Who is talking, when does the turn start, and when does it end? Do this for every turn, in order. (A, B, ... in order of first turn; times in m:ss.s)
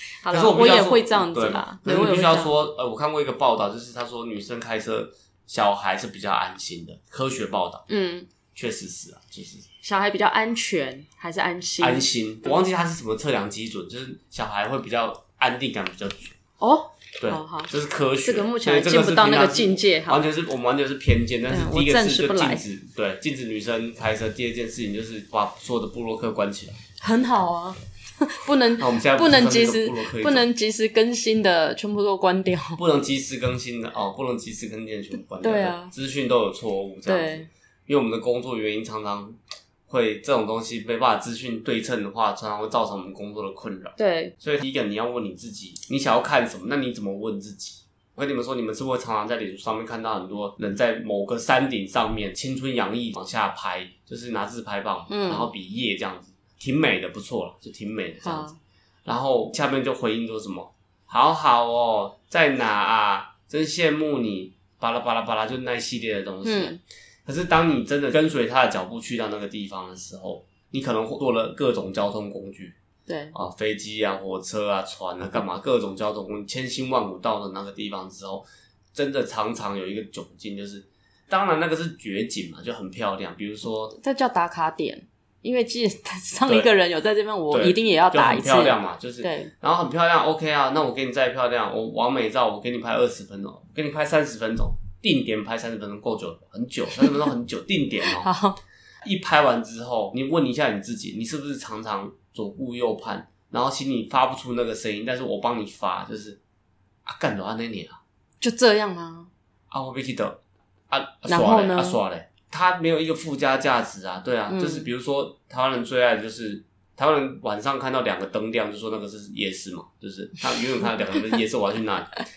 0:00.2-0:02.5 A
0:00.3-0:07.9 B
0:07.9-0:08.3 A
0:08.5-0:09.7 B
0:09.8-0:12.1 A
0:11.8-0:16.3 B
0:16.6-0:20.2 A
0:17.2-0:26.8 B
0:21.5-0:22.6 A
0:27.0-0:32.8 A
0:28.8-0:30.5 B
0:32.8-0:58.5 B
0:35.4-0:35.9 A
0:37.0-0:37.5 A
0:44.0-0:44.3 A
0:55.1-0:55.5 A
0:58.2-0:58.6 A
0:59.0-1:12.8 B
1:06.4-1:06.8 A
1:13.1-1:13.3 A
1:13.3-1:24.0 B
1:24.0-1:29.5 A
1:27.5-1:38.3 B
1:38.2-1:38.6 A
1:39.0-1:46.4 B
1:47.0-1:48.0 B
1:48.4-1:49.3 A
1:49.7-2:02.2 B
1:51.3-1:52.0 A
1:54.5-1:54.9 A